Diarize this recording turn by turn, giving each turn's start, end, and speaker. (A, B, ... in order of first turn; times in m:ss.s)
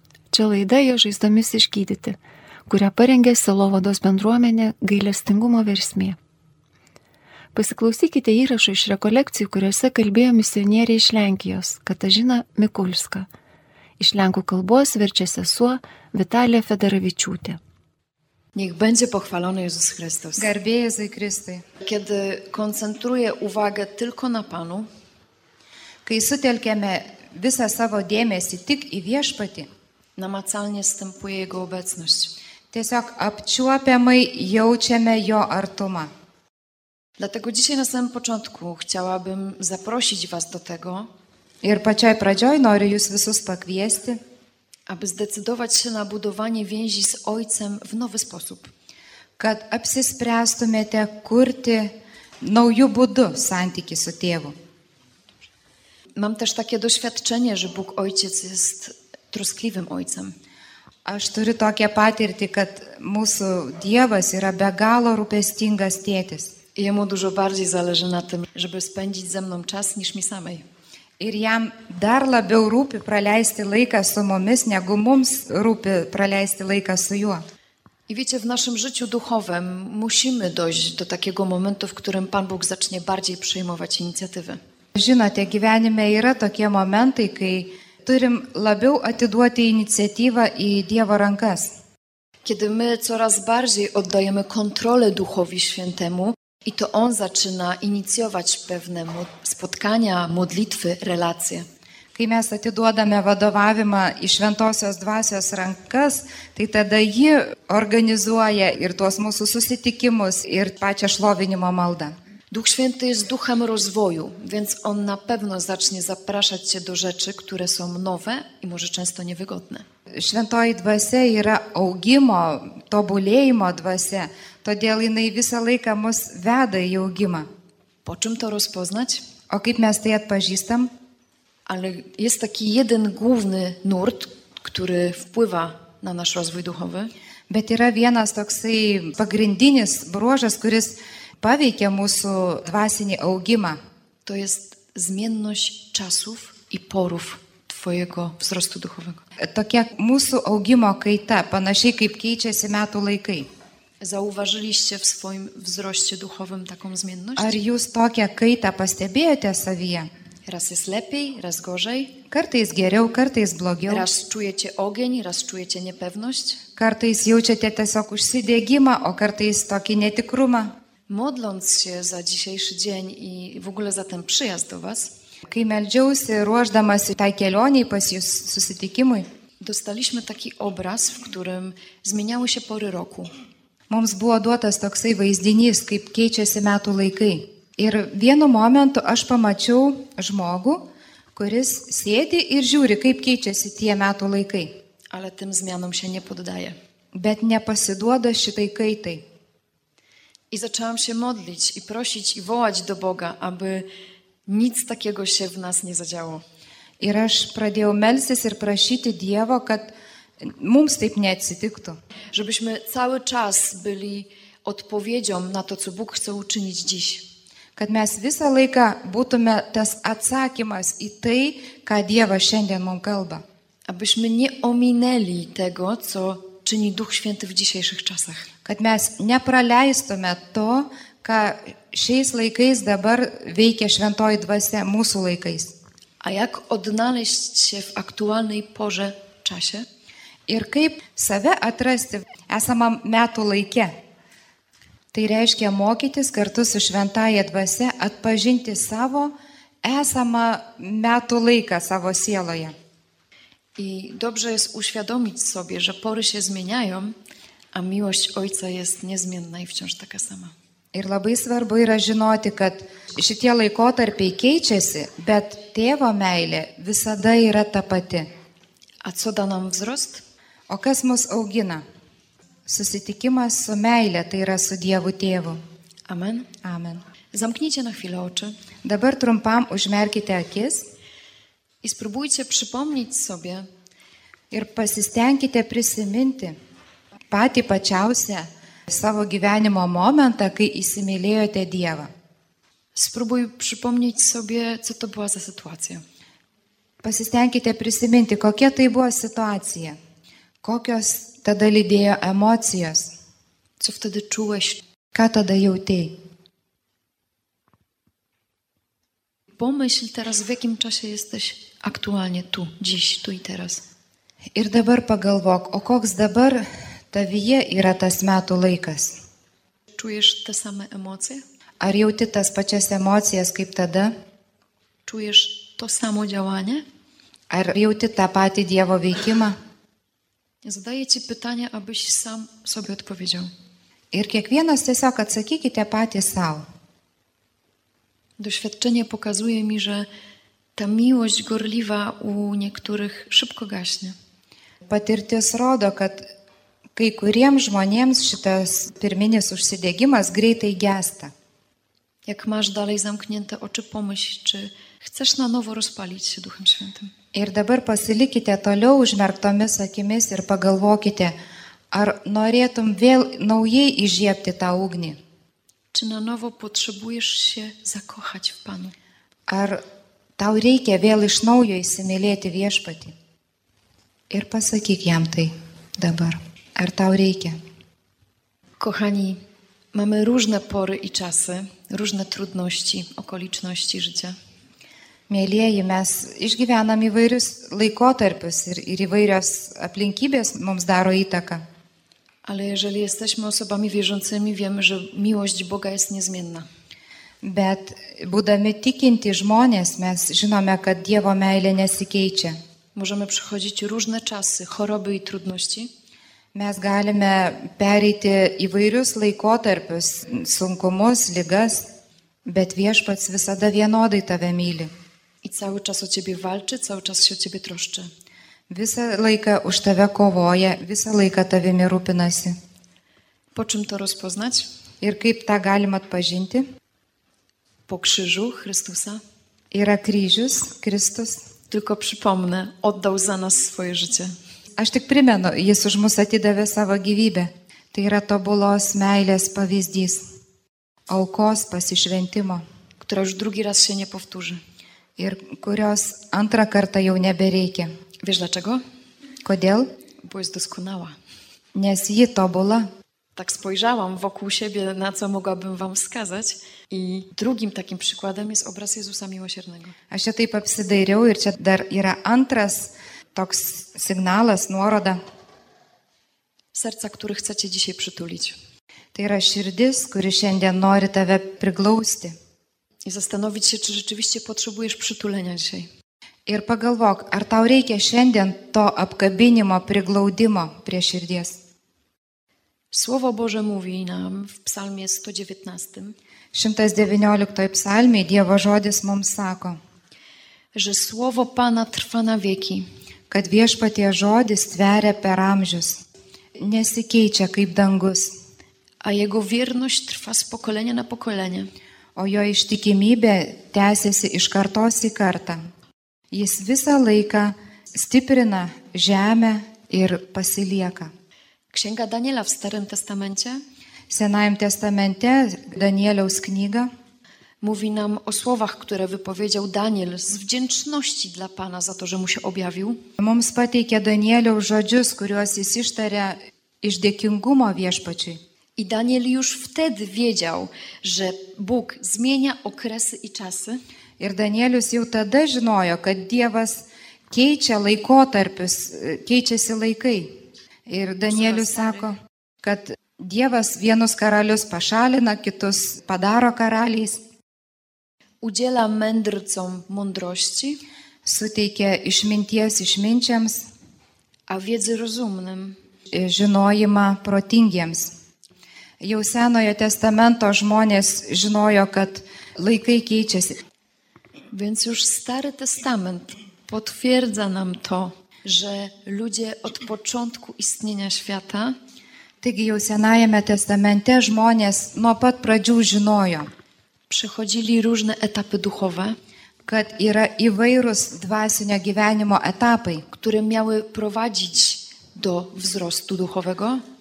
0:00.3-0:06.2 A
0:07.5-0:13.3 A
0:14.0-0:17.6 A
0:18.6-0:20.5 B
0:20.4-0:21.6 C
0:21.8-0:24.9 B
0:26.0-0:29.7 C
0:30.2-0:32.3 B
0:32.7-0:36.1 C
0:37.2-0:41.1 B
0:41.6-0:44.2 C
0:44.9-0:48.7 B
0:49.4-0:54.5 C
0:56.2-1:00.4 B
1:01.0-1:06.5 C
1:06.8-1:10.6 B
1:11.2-1:17.4 C
1:18.1-1:24.6 B
1:24.9-1:31.7 C
1:32.4-1:41.6 B
1:42.1-1:52.1 C
1:52.5-1:59.8 B
2:00.2-2:07.5 C
2:08.0-2:09.2 B
2:09.5-2:10.9 C
2:11.6-2:17.1 B
2:17.5-2:23.8 C
2:24.2-2:29.2 B
2:29.4-2:33.5 C
2:34.0-2:37.6 B
2:37.4-2:40.1 C
2:40.5-2:42.2 B
2:42.3-2:44.1 C
2:43.9-2:46.6 B
2:46.8-2:50.7 C
2:51.1-2:55.1 B
2:55.5-2:59.2 C
2:59.6-3:03.3 B
3:03.9-3:14.7 C
3:15.1-3:16.8 B
3:17.1-3:19.2 C
3:20.5-3:23.9 B
3:24.5-3:26.4 B
3:27.0-3:32.0 C
3:32.3-3:37.2 B
3:37.8-3:43.4 C
3:43.9-3:48.5 B
3:48.6-3:55.7 C
3:56.2-3:59.8 B
4:00.5-4:03.9 C
4:05.1-4:09.3 C
4:09.8-4:12.7 C
4:13.8-4:17.1 B
4:17.7-4:20.5 B
4:20.9-4:28.3 C
4:29.0-4:30.2 B
4:30.7-4:31.8 C
4:32.6-4:35.6 C
4:36.1-4:36.5 B
4:36.6-4:37.0 C
4:37.3-4:38.6 B
4:38.8-4:40.8 C
4:41.8-4:43.7 B
4:44.5-4:46.5 C
4:47.3-4:52.1 C
4:52.9-4:56.0 B
4:57.0-5:00.0 C
5:00.6-5:03.1 C
5:03.8-5:04.8 B
5:05.1-5:06.1 C
5:09.6-5:13.8 B
5:14.5-5:19.2 C
5:20.0-5:21.4 B
5:21.8-5:24.1 C
5:25.0-5:26.8 B
5:27.5-5:29.6 C
5:30.6-5:33.5 B
5:34.1-5:36.6 C
5:38.4-5:40.1 B
5:40.8-5:44.1 B
5:44.9-5:46.3 C
5:47.0-5:51.3 C
5:52.3-5:57.1 B
5:57.3-6:01.3 C
6:01.9-6:05.2 C
6:05.9-6:08.9 B
6:09.5-6:09.8 C
6:10.4-6:13.1 C
6:14.3-6:17.6 C
6:18.8-6:19.4 B
6:19.9-6:24.3 B
6:25.3-6:31.6 C
6:32.4-6:36.7 B
6:37.4-6:42.6 C
6:42.9-6:45.9 B
6:46.5-6:51.8 C
6:52.4-6:54.9 C
6:55.4-6:58.1 B
6:58.7-7:02.5 C
7:03.5-7:04.7 B
7:05.0-7:06.6 C
7:07.9-7:09.2 B
7:09.7-7:11.4 C
7:11.7-7:14.3 B
7:14.8-7:20.2 C
7:21.1-7:22.6 C
7:23.0-7:24.6 B
7:25.2-7:27.9 C
7:28.2-7:28.8 B
7:29.4-7:29.9 C
7:30.2-7:31.2 B
7:31.7-7:32.9 C
7:33.4-7:40.0 B
7:40.1-7:45.2 C
7:46.7-7:48.5 B
7:49.1-7:52.3 C
7:53.0-7:55.9 B
7:56.5-8:01.6 C
8:02.9-8:06.2 B
8:06.5-8:09.8 C
8:10.7-8:12.8 B
8:13.3-8:16.0 C
8:16.6-8:18.3 C
8:19.0-8:21.7 B
8:22.2-8:25.6 C
8:26.3-8:31.1 C
8:31.7-8:33.6 B
8:34.1-8:36.9 C
8:37.6-8:43.0 B
8:43.2-8:48.4 C
8:48.8-8:53.8 B
8:54.2-9:00.3 C
9:00.9-9:07.2 C
9:01.3-9:02.1 B
9:08.4-9:10.8 B
9:11.2-9:13.7 C
9:14.5-9:15.8 B
9:16.1-9:18.1 C
9:19.0-9:23.6 C
9:24.5-9:31.8 B
9:32.4-9:36.5 C
9:37.1-9:39.2 B
9:39.6-9:43.0 C
9:43.1-9:46.8 B